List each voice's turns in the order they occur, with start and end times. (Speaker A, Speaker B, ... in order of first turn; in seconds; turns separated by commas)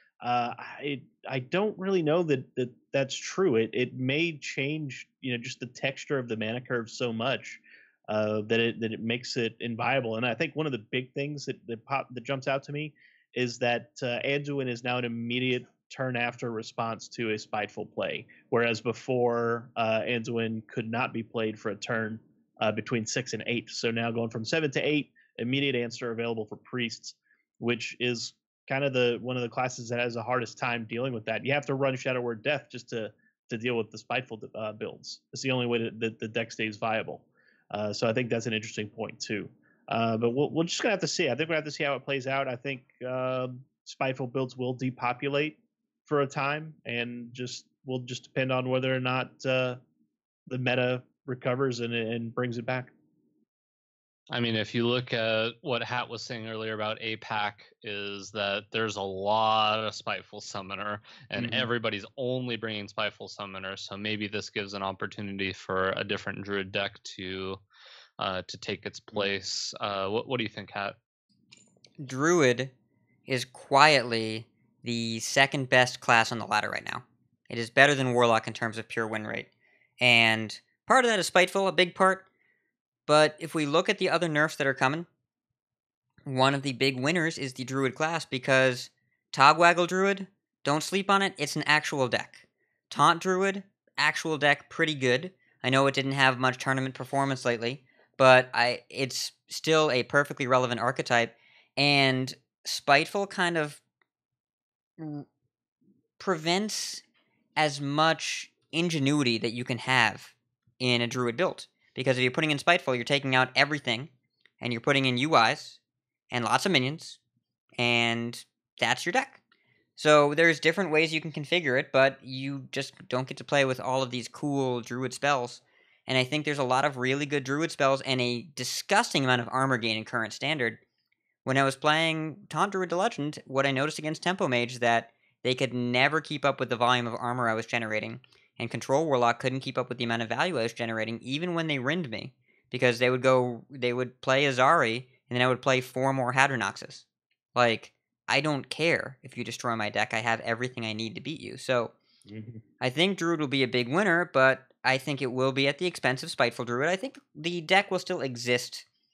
Speaker A: 0.2-49.8, Speaker A: 50.5-52.9, Speaker B: 54.3-67.6, Speaker A: 61.4-61.7, Speaker B: 68.2-71.0, Speaker C: 72.0-72.7, Speaker C: 73.3-79.5, Speaker C: 80.0-82.3, Speaker C: 83.1-85.1, Speaker C: 86.2-103.8, Speaker C: 105.0-105.3, Speaker C: 106.2-107.0, Speaker C: 107.6-114.1, Speaker C: 114.6-115.8, Speaker C: 116.3-117.2, Speaker C: 117.8-119.4, Speaker C: 120.0-130.8, Speaker C: 131.4-151.9, Speaker A: 152.3-152.6, Speaker C: 152.8-158.8